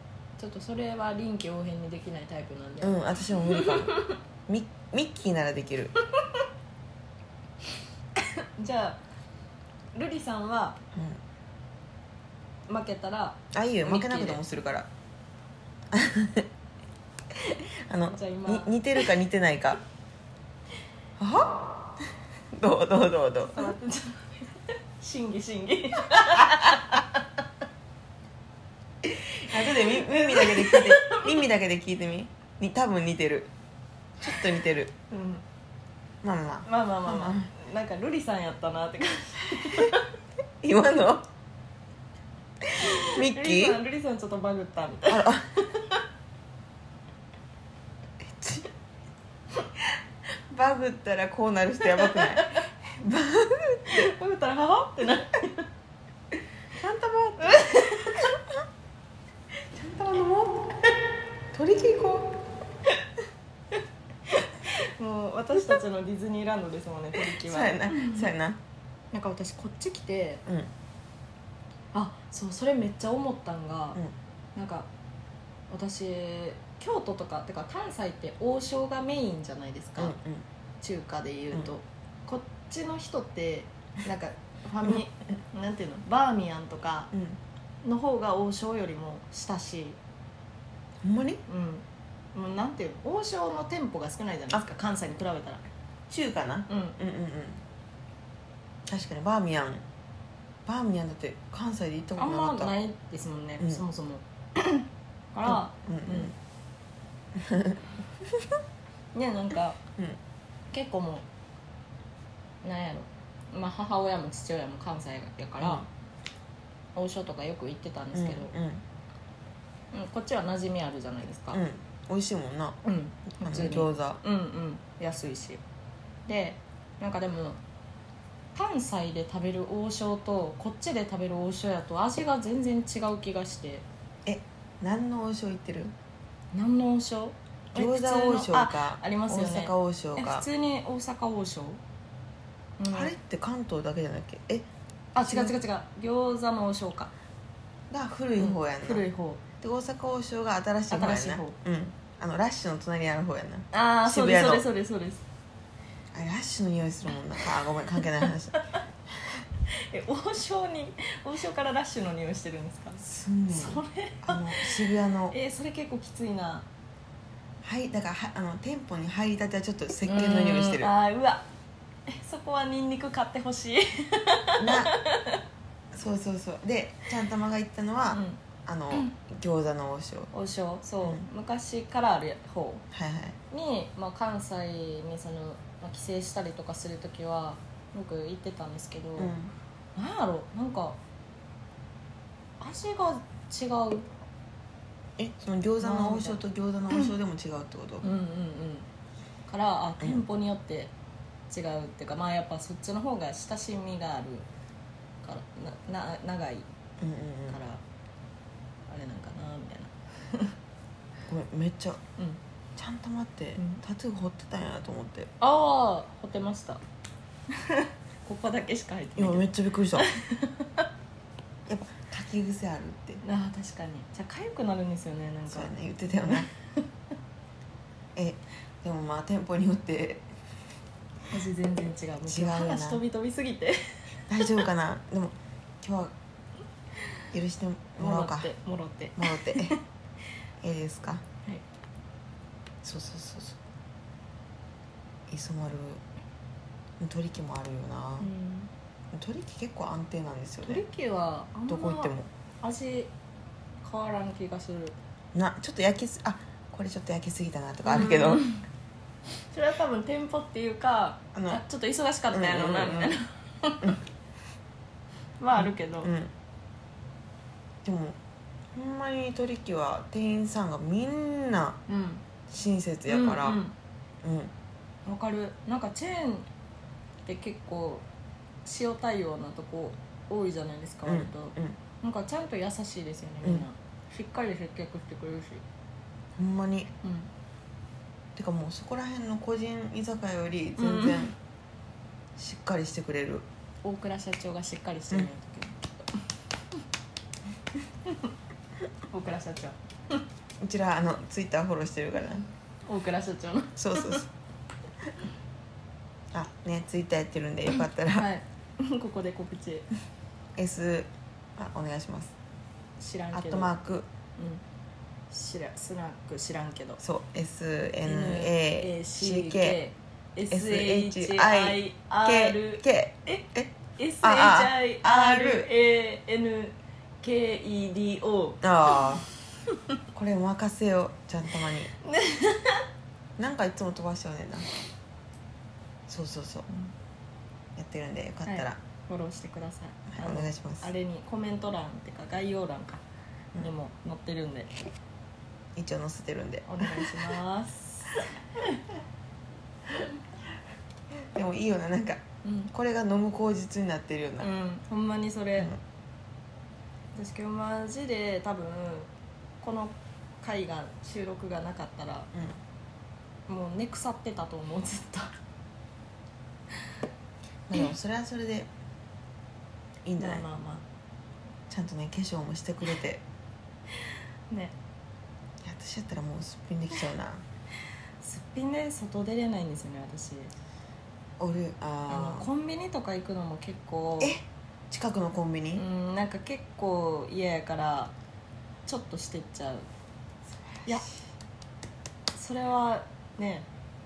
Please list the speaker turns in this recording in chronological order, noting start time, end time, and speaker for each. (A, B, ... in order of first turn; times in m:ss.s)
0:00.4-0:04.2 A
0:02.8-0:03.9 B
0:04.5-0:05.9 B
0:06.2-0:06.4 A
0:08.2-0:09.0 A
0:09.9-0:10.8 A
0:10.9-0:11.2 B
0:12.7-0:14.4 A
0:13.5-0:14.9 B
0:15.9-0:16.5 B
0:17.3-0:19.8 B
0:18.1-0:19.0 A
0:21.2-0:23.7 B
0:23.5-0:27.2 A
0:29.0-0:33.5 B
0:29.5-0:31.4 A
0:34.2-0:34.9 B
0:35.1-0:35.4 A
0:36.2-0:37.5 B
0:36.6-0:40.1 A
0:39.6-0:39.9 B
0:40.6-0:41.2 B
0:42.6-0:43.8 B
0:42.8-0:46.0 A
0:45.1-0:45.5 B
0:48.2-0:48.7 B
0:50.5-0:54.1 B
0:51.9-0:52.7 A
0:53.9-0:55.7 A
0:56.7-0:58.5 B
0:57.4-0:58.2 A
0:59.7-1:00.9 B
1:01.5-1:02.3 B
1:04.3-1:08.3 A
1:07.2-1:08.6 B
1:09.1-1:10.4 A
1:10.4-1:10.7 B
1:11.9-1:14.0 A
1:14.5-1:14.9 A
1:15.7-1:20.2 A
1:20.0-1:20.4 B
1:20.8-1:27.1 A
1:27.1-1:27.4 B
1:27.8-1:30.0 A
1:31.0-1:31.4 B
1:31.5-1:35.7 A
1:36.1-1:37.6 B
1:36.7-1:37.0 A
1:38.8-1:39.8 B
1:40.6-1:42.7 B
1:42.2-1:46.3 A
1:45.4-1:46.3 B
1:47.3-1:48.6 B
1:49.1-1:49.8 A
1:50.7-1:51.2 A
1:52.6-1:55.9 A
1:55.6-1:55.8 B
1:56.9-1:58.5 A
1:58.1-1:58.8 B
1:59.9-2:01.6 A
2:01.5-2:02.8 B
2:02.8-2:05.6 A
2:03.4-2:04.2 B
2:06.3-2:07.6 A
2:08.5-2:13.8 A
2:14.2-2:15.9 B
2:16.5-2:21.8 A
2:17.7-2:20.4 B
2:22.8-2:23.1 A
2:22.9-2:24.7 B
2:25.1-2:27.1 A
2:25.2-2:25.5 B
2:27.9-2:29.0 B
2:28.4-2:29.4 A
2:29.6-2:34.6 B
2:30.9-2:31.6 A
2:33.7-2:35.2 A
2:36.1-2:38.6 B
2:39.7-2:46.7 A
2:43.0-2:45.4 B
2:47.6-2:50.9 B
2:50.0-2:51.4 A
2:52.1-2:55.4 A
2:54.6-2:54.9 B
2:55.9-3:00.3 B
2:58.1-2:58.4 A
3:00.3-3:02.8 A
3:02.9-3:03.4 B
3:03.5-3:09.3 A
3:09.2-3:09.5 B
3:09.9-3:11.0 A
3:12.6-3:14.1 A
3:15.2-3:18.1 B
3:15.8-3:16.4 A
3:18.0-3:18.9 A
3:19.5-3:20.9 A
3:21.5-3:24.5 A
3:25.2-3:26.7 A
3:27.0-3:27.6 B
3:27.5-3:27.8 A
3:28.9-3:30.5 A
3:31.3-3:32.0 B
3:32.8-3:35.3 B
3:33.6-3:33.8 A
3:35.4-3:36.8 A
3:37.5-3:40.8 A
3:39.2-3:40.1 B
3:41.7-3:43.2 B
3:43.2-3:45.7 A
3:45.5-3:46.5 B
3:46.3-3:46.8 A
3:48.1-3:50.3 B
3:51.3-3:54.6 A
3:52.2-3:53.0 B
3:54.3-3:56.1 B
3:57.3-3:58.5 B
3:58.0-3:59.8 A
3:59.2-3:59.8 B
4:00.6-4:01.2 B
4:02.8-4:03.6 B
4:05.3-4:06.0 B
4:07.0-4:08.3 B
4:08.2-4:08.7 A
4:09.1-4:10.8 B
4:10.6-4:13.1 A
4:11.7-4:12.3 B
4:13.8-4:15.0 A
4:15.3-4:18.4 B
4:17.8-4:18.6 A
4:19.5-4:24.0 A
4:21.3-4:21.6 B
4:22.3-4:23.1 B
4:25.4-4:26.1 A
4:25.6-4:26.3 B
4:27.8-4:28.2 B
4:28.7-4:31.8 B
4:31.9-4:32.2 A
4:32.5-4:33.6 B
4:33.1-4:33.7 A
4:34.2-4:34.5 B
4:35.0-4:36.5 A
4:37.2-4:38.0 A
4:38.6-4:45.6 A
4:41.0-4:41.8 B
4:46.4-4:46.9 B
4:47.0-4:47.3 A
4:48.4-4:51.3 B
4:50.8-4:51.3 A
4:52.4-4:53.5 B
4:53.8-4:56.0 A
4:58.0-4:58.3 A
4:59.1-5:00.2 A
5:00.6-5:02.4 B
5:02.8-5:04.2 A
5:03.8-5:04.3 B
5:06.3-5:08.3 B
5:08.1-5:09.9 A
5:10.6-5:12.3 B
5:13.0-5:13.7 A
5:13.3-5:14.1 B
5:14.4-5:14.6 A
5:15.3-5:17.0 A
5:17.0-5:19.8 B
5:18.0-5:29.0 A
5:20.5-5:25.7 B
5:28.6-5:29.2 B
5:30.1-5:31.9 B
5:32.0-5:32.8 A
5:33.4-5:34.7 B
5:36.1-5:36.6 B
5:36.7-5:36.9 A
5:37.8-5:38.8 B
5:38.4-5:43.0 A
5:40.1-5:40.9 B
5:43.6-5:44.7 A
5:45.8-5:47.3 B
5:46.7-5:48.8 A
5:51.3-5:54.5 B
5:52.4-5:52.7 A
5:54.4-5:55.7 A
5:57.1-5:59.1 A
5:59.6-6:02.3 A
6:02.3-6:02.6 B
6:03.5-6:05.3 A
6:07.7-6:08.7 B
6:10.0-6:10.4 B
6:10.2-6:10.8 A
6:11.7-6:13.2 B
6:14.5-6:14.7 A
6:15.6-6:17.4 B
6:18.2-6:20.5 A
6:21.4-6:22.5 B
6:22.1-6:24.4 A
6:24.2-6:25.8 B
6:25.7-6:28.1 A
6:28.8-6:29.9 A
6:30.8-6:31.1 B
6:32.4-6:33.7 A